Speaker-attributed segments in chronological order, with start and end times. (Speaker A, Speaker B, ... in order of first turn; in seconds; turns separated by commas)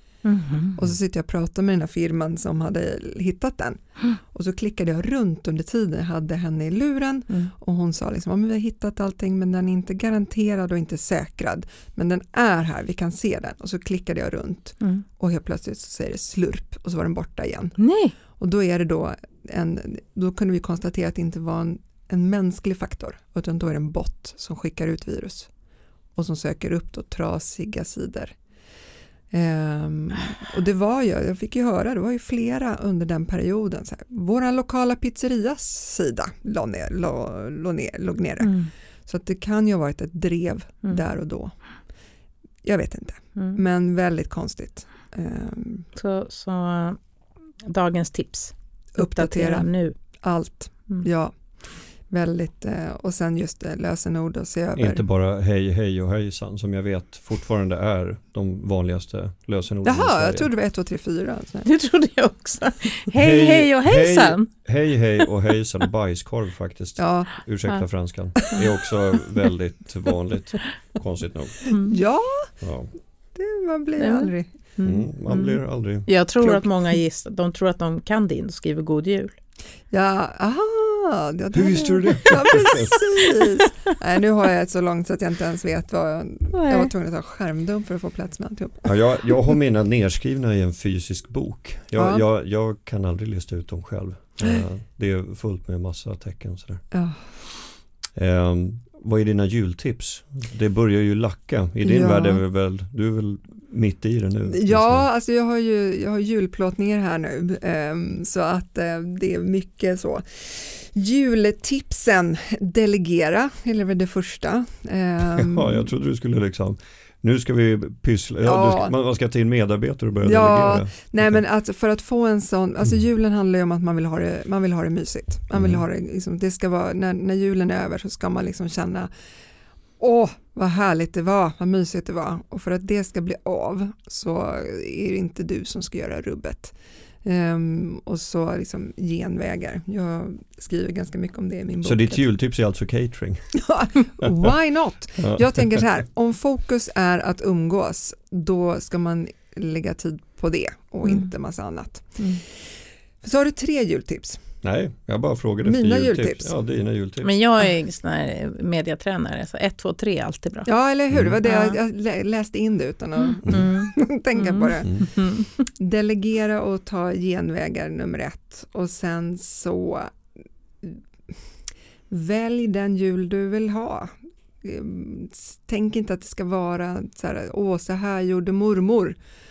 Speaker A: 0.2-0.8, Speaker B: 0.8-25.5, Speaker A: 17.8-18.1, Speaker B: 26.1-28.4, Speaker B: 29.3-41.5, Speaker A: 38.4-38.7, Speaker B: 42.6-45.9, Speaker A: 46.0-47.0, Speaker A: 47.6-50.0, Speaker B: 49.0-49.7, Speaker B: 50.2-55.0, Speaker C: 54.8-60.5, Speaker B: 59.8-61.7, Speaker A: 61.7-64.5, Speaker C: 63.1-71.7, Speaker B: 67.0-67.3, Speaker A: 71.7-72.0, Speaker B: 71.8-72.5, Speaker C: 72.6-72.9, Speaker B: 73.3-74.5, Speaker A: 74.0-79.3, Speaker C: 74.8-76.1, Speaker B: 79.9-89.0, Speaker C: 81.5-83.0, Speaker A: 82.5-82.8, Speaker A: 86.5-86.9, Speaker C: 88.8-96.8, Speaker B: 92.0-92.2, Speaker B: 96.9-97.3, Speaker C: 98.2-105.1, Speaker B: 101.8-102.4, Speaker B: 104.5-115.9, Speaker C: 115.3-121.3, Speaker B: 118.4-118.9, Speaker B: 120.2-129.1, Speaker C: 125.5-125.8, Speaker B: 130.0-142.3, Speaker C: 141.8-143.7, Speaker B: 143.5-152.4, Speaker C: 144.2-144.5, Speaker C: 145.2-145.8, Speaker B: 153.2-154.4, Speaker C: 154.6-157.3, Speaker B: 155.7-156.5, Speaker A: 157.2-160.7, Speaker B: 160.7-170.2, Speaker C: 161.1-161.4, Speaker A: 161.5-161.8, Speaker A: 163.5-165.5, Speaker B: 172.1-179.2